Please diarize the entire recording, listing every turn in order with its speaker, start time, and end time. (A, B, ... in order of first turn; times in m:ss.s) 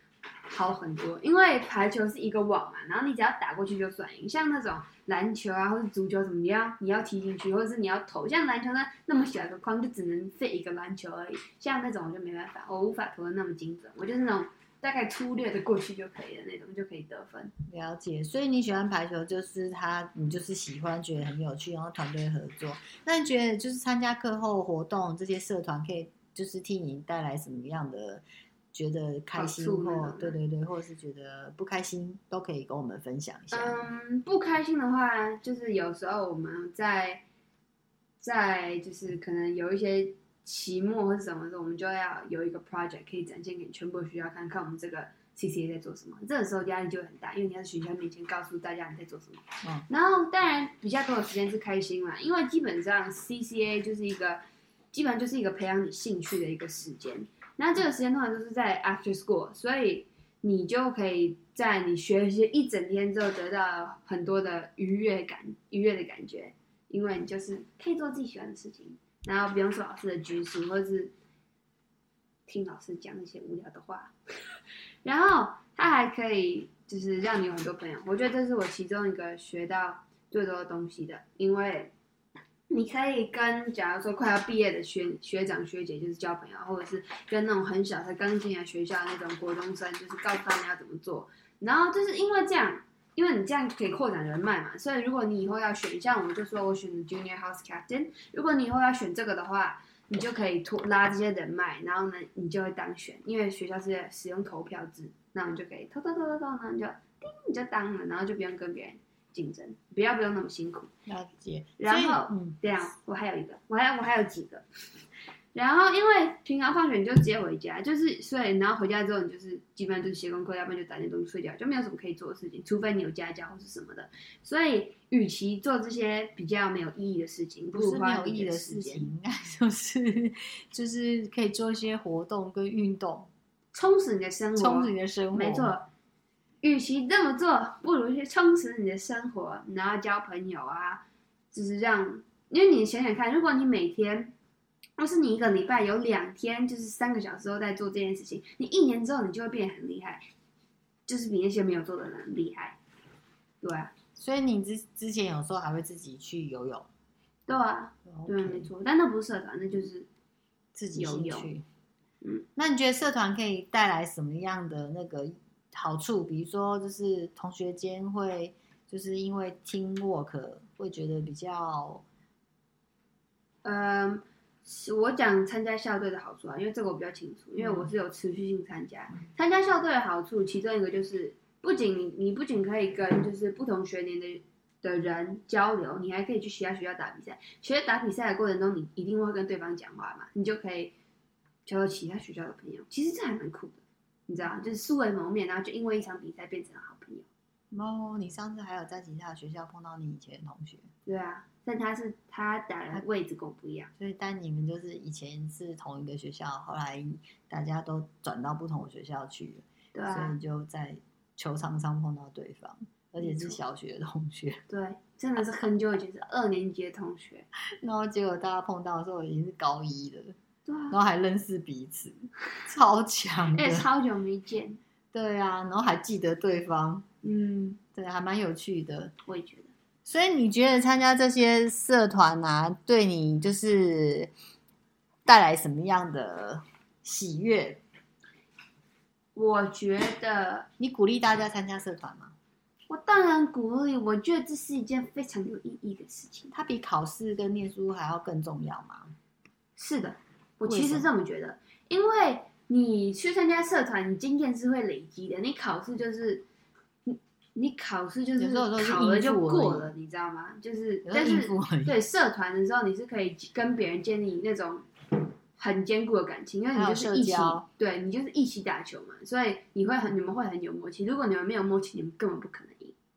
0:00.5-0:17.5 A
0:17.7-0:33.9 B
0:29.3-0:30.4 A
0:33.5-0:37.2 A
0:38.2-1:11.1 A
1:12.5-1:14.1 A
1:15.0-1:21.9 A
1:22.7-1:50.9 A
1:51.1-1:52.6 B
1:51.8-1:54.6 A
1:55.5-2:09.1 A
2:07.7-2:13.3 B
2:13.7-2:15.9 A
2:14.6-2:15.7 B
2:16.6-2:24.3 A
2:25.0-2:30.2 A
2:31.1-2:32.8 A
2:33.6-2:33.9 A
2:34.2-2:36.9 B
2:37.5-2:40.1 A
2:38.0-2:38.7 B
2:40.7-2:41.6 B
2:41.0-2:41.5 A
2:42.6-2:52.0 B
2:53.6-3:10.9 A
2:57.6-2:57.9 B
3:11.6-3:17.2 A
3:17.7-3:20.8 B
3:21.0-3:23.9 A
3:24.0-3:34.6 B
3:29.9-3:30.4 A
3:33.2-3:33.6 A
3:34.7-3:37.4 A
3:37.8-3:40.3 B
3:40.6-3:41.0 A
3:40.9-3:43.9 B
3:43.5-3:44.8 A
3:45.1-3:47.0 B
3:47.2-3:47.8 A
3:47.9-3:49.1 B
3:49.3-3:49.7 A
3:50.0-3:54.3 B
3:55.2-3:57.8 B
3:59.3-4:00.7 A
4:00.8-4:02.3 B
4:02.9-4:06.5 A
4:06.5-4:09.1 B
4:09.8-4:16.4 A
4:10.6-4:11.1 B
4:17.0-4:24.9 A
4:18.4-4:19.9 B
4:21.0-4:22.0 B
4:25.6-4:32.9 A
4:26.7-4:27.6 B